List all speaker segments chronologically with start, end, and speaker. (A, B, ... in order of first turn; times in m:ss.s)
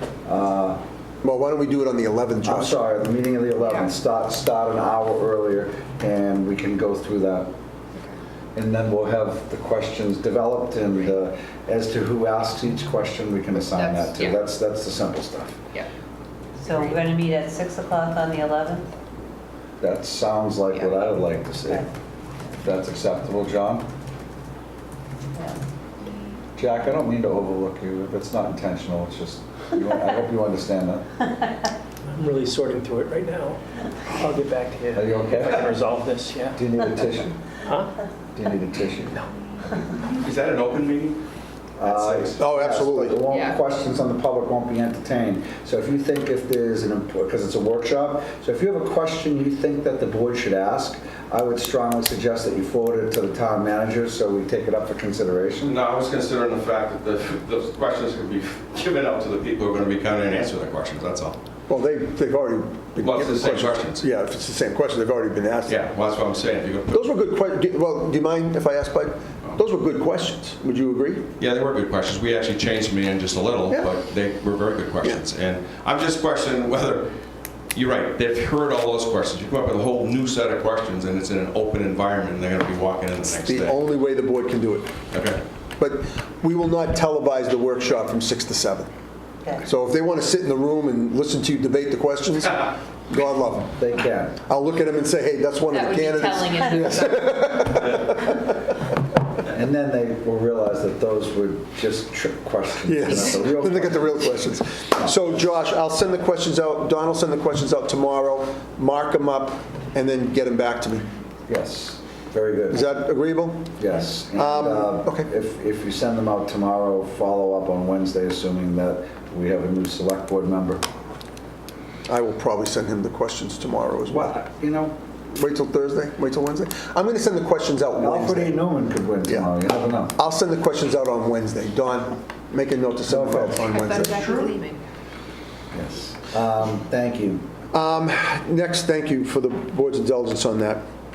0:00.2-0:00.8 A
0:01.2-0:02.8 B
0:02.4-0:07.5 A
0:03.6-0:03.9 C
0:08.5-0:15.6 A
0:13.6-0:14.4 C
0:16.6-0:18.9 D
0:19.8-0:21.9 A
0:22.6-0:23.8 A
0:26.6-0:31.0 A
0:32.1-0:36.6 E
0:34.9-0:35.7 A
0:36.6-0:37.6 A
0:37.6-0:37.9 E
0:38.3-0:39.2 A
0:40.1-0:41.2 F
0:41.8-0:55.8 A
0:41.8-0:42.3 F
0:42.4-0:43.2 B
0:43.3-0:43.6 C
0:55.6-1:01.4 F
1:01.7-1:05.8 B
1:03.0-1:04.0 F
1:05.6-1:07.0 F
1:06.9-1:11.3 B
1:11.4-1:17.1 F
1:17.7-1:23.8 F
1:23.4-1:24.9 B
1:25.1-1:25.4 F
1:25.8-1:28.9 B
1:29.6-1:33.8 B
1:33.8-1:34.4 A
1:34.4-1:38.7 B
1:35.7-1:37.5 C
1:39.5-1:44.3 A
1:42.8-1:51.1 B
1:45.0-1:45.4 A
1:51.5-1:52.8 A
1:52.7-1:53.7 B
1:53.8-2:00.8 A
1:54.3-1:55.3 B
2:02.1-2:04.3 B
2:04.1-2:04.9 A
2:05.3-2:08.6 B
2:08.0-2:10.1 A
2:10.2-2:14.2 B
2:13.1-2:13.6 A
2:13.7-2:14.8 C
2:15.7-2:17.4 A
2:17.7-2:20.8 B